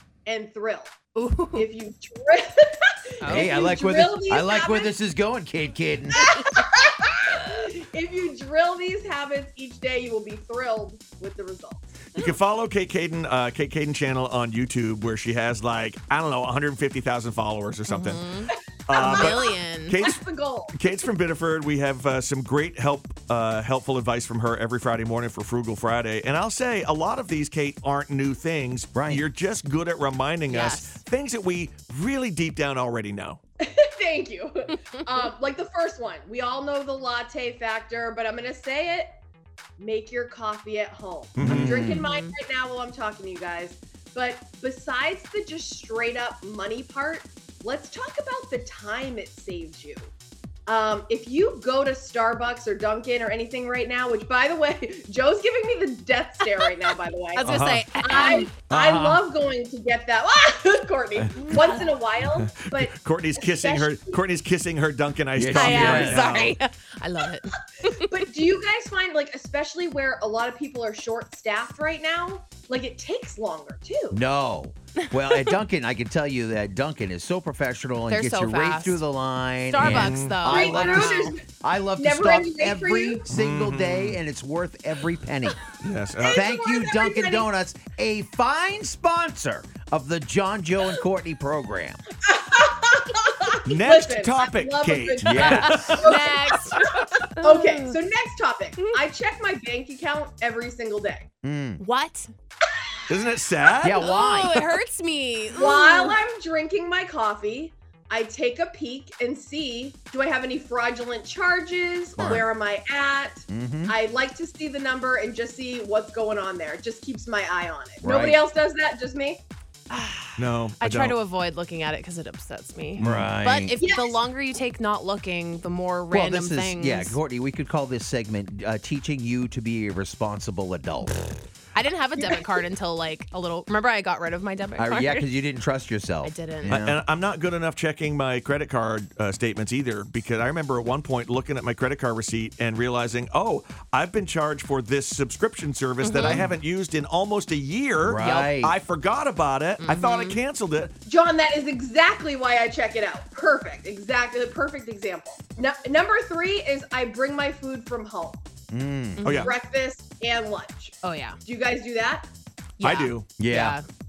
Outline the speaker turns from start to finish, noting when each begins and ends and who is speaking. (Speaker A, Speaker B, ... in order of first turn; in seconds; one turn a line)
Speaker A: 0.2-0.9
Speaker B: 1.1-1.7
Speaker A: 1.6-4.9
Speaker B: 3.2-3.6
Speaker C: 3.2-6.3
Speaker A: 6.2-11.9
Speaker D: 12.1-18.2
Speaker B: 17.9-20.0
Speaker D: 18.9-33.4
Speaker A: 18.9-20.7
Speaker C: 28.9-29.2
Speaker B: 30.5-31.0
Speaker A: 33.6-39.1
Speaker A: 39.8-50.1
Speaker D: 41.4-41.9
Speaker C: 41.4-42.0
Speaker B: 42.0-42.3
Speaker A: 50.7-64.2
Speaker B: 57.3-58.5
Speaker D: 57.4-57.9
Speaker C: 58.7-59.2
Speaker B: 61.5-61.9
Speaker D: 62.7-66.6
Speaker C: 65.3-66.5
Speaker B: 65.5-68.1
Speaker A: 68.1-74.2
Speaker C: 74.1-85.6
Speaker B: 75.1-75.6
Speaker B: 78.1-79.0
Speaker B: 79.7-81.4
Speaker D: 79.8-80.4
Speaker A: 80.4-81.4
Speaker A: 82.0-83.2
Speaker D: 83.3-84.2
Speaker D: 85.8-86.5
Speaker A: 86.2-87.5
Speaker C: 86.3-92.0
Speaker A: 92.2-96.9
Speaker D: 93.7-96.0
Speaker C: 95.2-96.0
Speaker B: 95.8-98.0
Speaker A: 97.4-101.3
Speaker C: 101.4-101.8
Speaker B: 101.8-102.3
Speaker D: 103.1-104.0
Speaker C: 103.8-104.7
Speaker B: 103.9-106.2
Speaker A: 105.5-119.4
Speaker D: 112.2-112.4
Speaker C: 113.5-113.9
Speaker C: 118.0-118.4
Speaker B: 119.9-127.2
Speaker D: 120.4-121.2
Speaker C: 123.0-123.8
Speaker D: 123.0-123.3
Speaker A: 123.8-124.2
Speaker C: 126.1-131.3
Speaker B: 131.7-135.3
Speaker A: 132.2-132.6
Speaker C: 134.8-137.0
Speaker B: 136.2-136.8
Speaker D: 136.7-150.9
Speaker B: 146.0-146.4
Speaker C: 146.2-146.6
Speaker C: 148.0-148.8
Speaker B: 149.8-150.4
Speaker A: 151.1-158.4
Speaker C: 158.7-159.2
Speaker B: 159.2-159.5
Speaker D: 159.2-159.5
Speaker A: 159.4-162.3
Speaker B: 161.0-161.4
Speaker B: 162.8-163.8
Speaker D: 162.8-163.3
Speaker C: 163.4-163.8